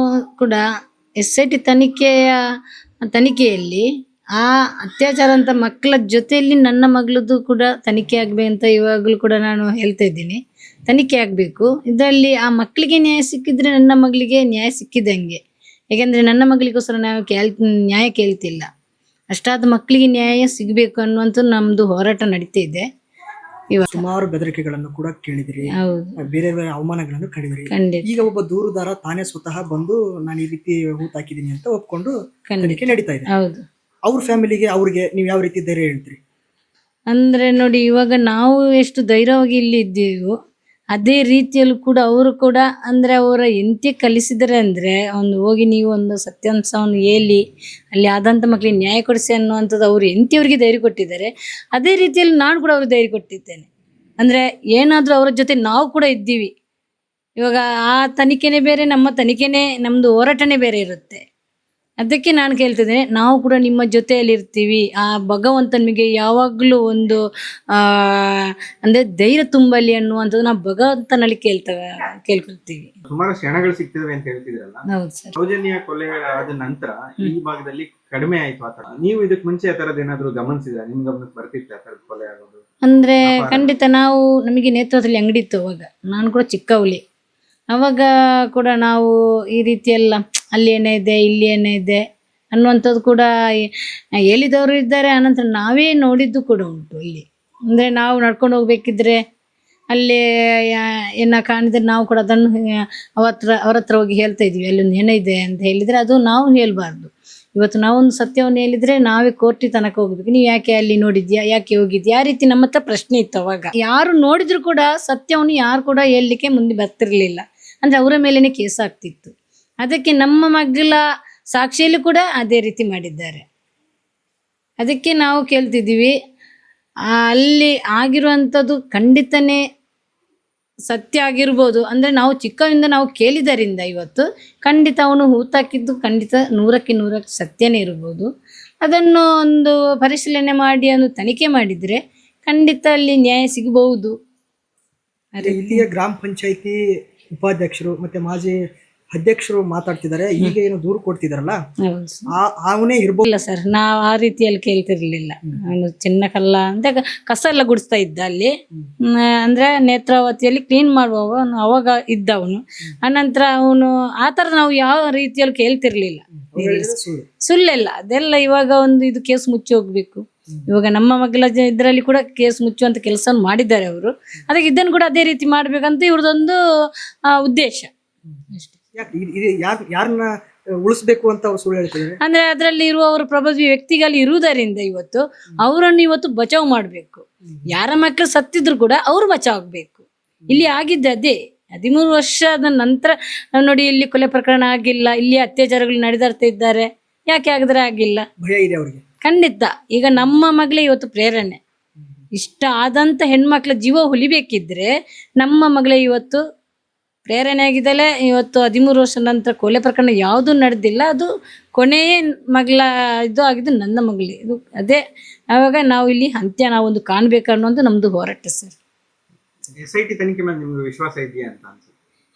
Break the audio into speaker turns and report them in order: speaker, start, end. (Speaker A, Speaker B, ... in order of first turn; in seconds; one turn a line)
Speaker A: 0.4-0.6
Speaker A: 1.2-2.4
Speaker A: 3.0-3.8
Speaker A: 4.4-15.4
Speaker A: 15.9-18.7
Speaker A: 19.3-22.9
Speaker A: 23.7-24.0
Speaker B: 23.9-33.3
Speaker A: 25.8-26.1
Speaker A: 27.7-28.1
Speaker A: 32.5-33.6
Speaker B: 34.0-36.2
Speaker A: 37.1-40.4
Speaker A: 40.9-47.4
Speaker A: 47.9-53.7
Speaker A: 54.2-56.5
Speaker A: 57.4-61.2
Speaker A: 62.0-67.2
Speaker A: 67.7-72.9
Speaker C: 73.1-82.6
Speaker A: 74.9-75.3
Speaker A: 82.9-87.0
Speaker C: 83.2-83.7
Speaker A: 87.7-93.7
Speaker A: 94.2-99.2
Speaker A: 99.9-121.0
Speaker A: 121.5-123.4
Speaker A: 124.8-126.1
Speaker A: 127.2-129.6
Speaker A: 130.9-138.3
Speaker A: 138.8-144.1
Speaker A: 145.3-145.8
Speaker B: 145.4-146.8
Speaker B: 147.3-148.6
Speaker B: 149.1-151.6
Speaker A: 151.8-152.3
Speaker B: 152.3-153.2
Speaker A: 153.2-158.5
Speaker A: 159.1-166.9
Speaker B: 166.5-167.3
Speaker A: 167.4-176.6
Speaker A: 177.3-177.9
Speaker B: 179.0-180.3
Speaker B: 180.8-182.2
Speaker A: 182.2-198.2
Speaker B: 198.4-199.0
Speaker A: 199.2-201.6
Speaker A: 202.4-206.4
Speaker A: 207.2-218.8
Speaker C: 219.8-221.9